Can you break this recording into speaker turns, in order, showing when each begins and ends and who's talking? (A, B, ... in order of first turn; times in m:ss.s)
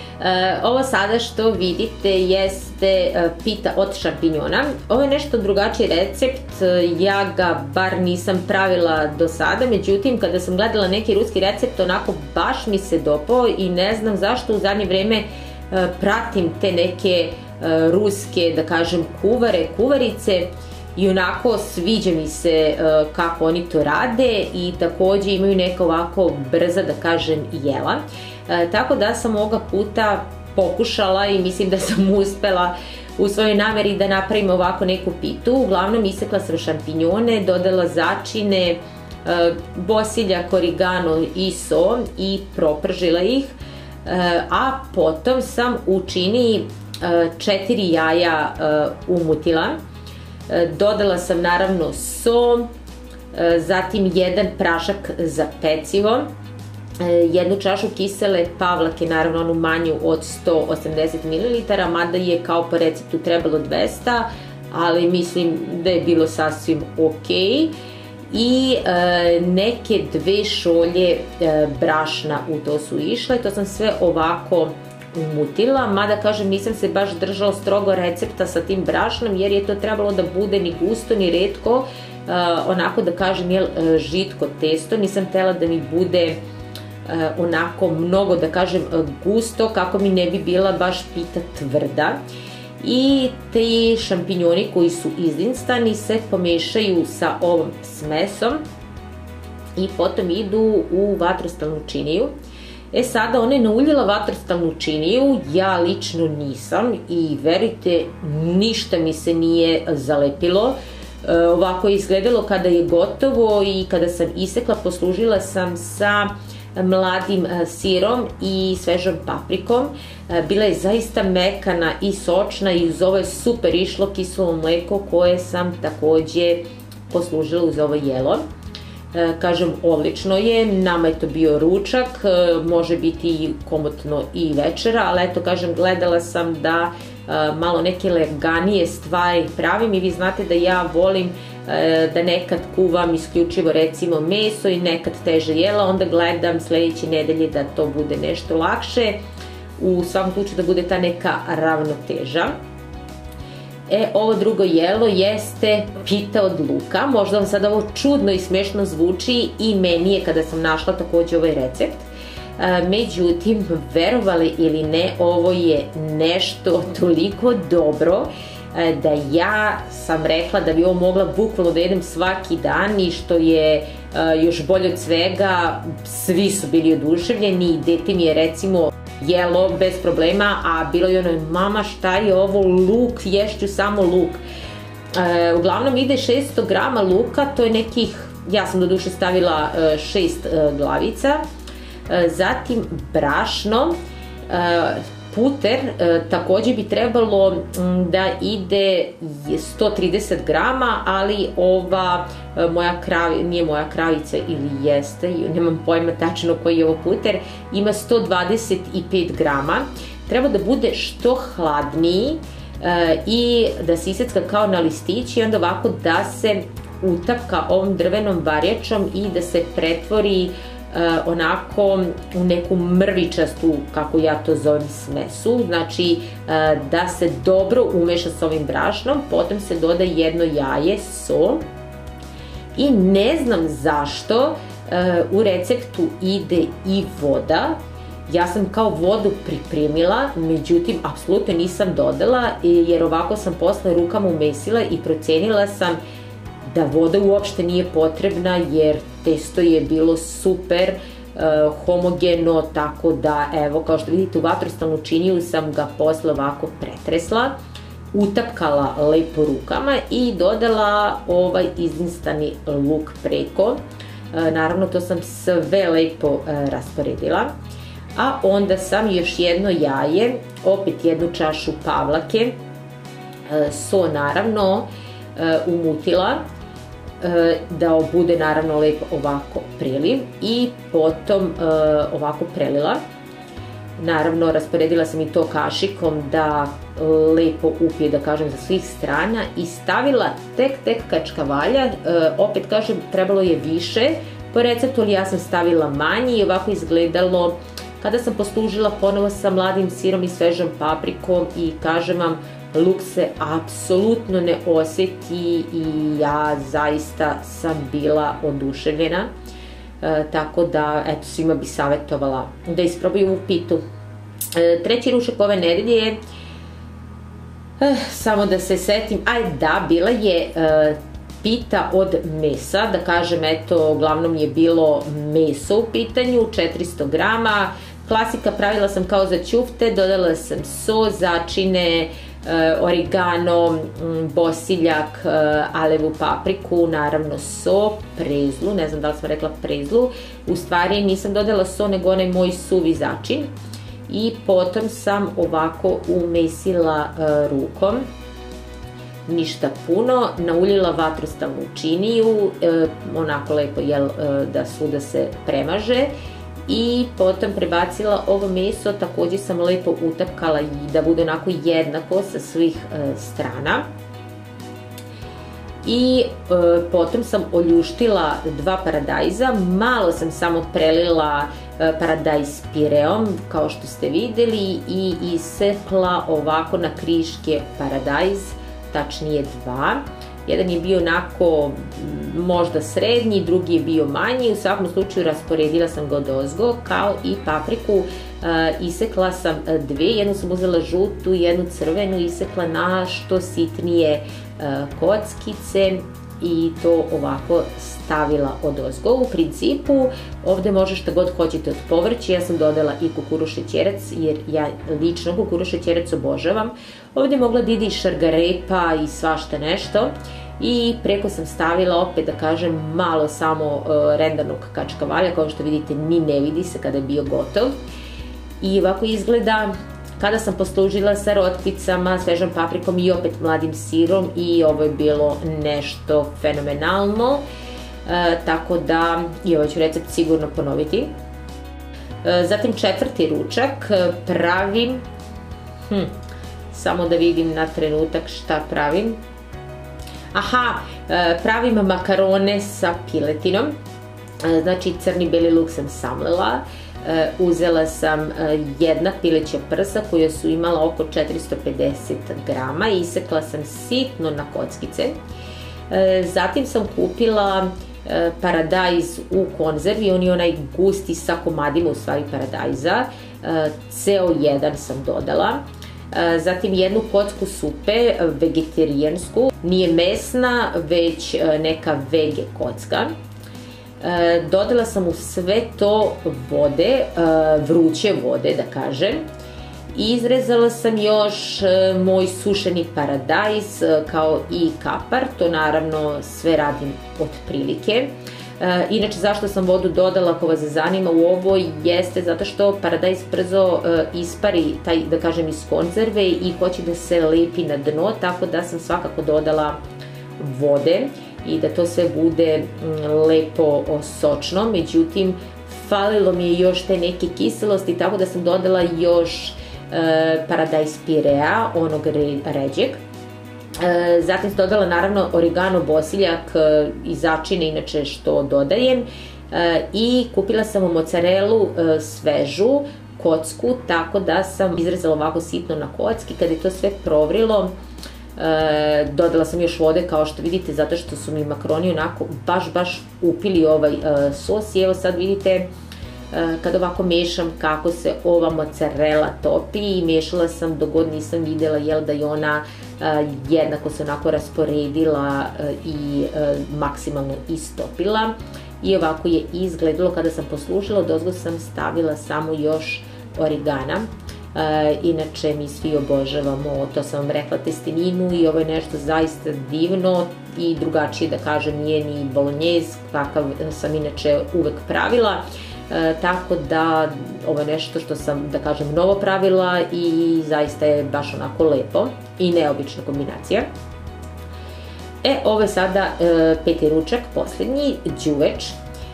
0:00.2-0:49.8 A
0:50.5-0:52.7 A
0:53.3-0:56.3 A
0:57.0-1:07.7 A
1:08.3-1:26.4 A
1:27.1-1:32.2 A
1:32.8-1:38.6 A
1:39.8-1:42.3 A
1:42.9-2:08.4 A
2:09.1-2:29.2 A
2:29.8-2:32.6 A
2:33.9-3:04.4 A
3:05.1-3:11.4 A
3:12.1-3:14.0 A
3:14.5-3:51.6 A
3:52.8-4:06.0 A
4:06.6-4:17.6 A
4:18.1-4:23.8 A
4:24.3-4:27.5 A
4:28.2-4:32.6 A
4:33.5-4:36.4 A
4:37.2-4:43.0 A
4:44.0-5:09.3 A
5:10.0-5:13.8 A
5:14.5-5:16.2 A
5:17.8-5:43.5 A
5:44.1-5:48.0 A
5:49.3-5:56.1 A
5:56.7-6:03.9 A
6:05.8-6:57.8 A
6:58.6-7:07.4 A
7:08.1-7:11.1 A
7:12.2-7:15.0 A
7:15.9-7:16.1 A
7:16.7-7:19.2 A
7:20.3-7:23.7 A
7:24.4-7:35.2 A
7:35.9-7:53.1 A
7:54.0-7:59.2 A
7:59.9-8:19.8 A
8:20.4-8:33.0 A
8:33.8-8:47.7 A
8:48.4-8:55.7 A
8:56.3-9:33.6 A
9:35.2-9:38.8 A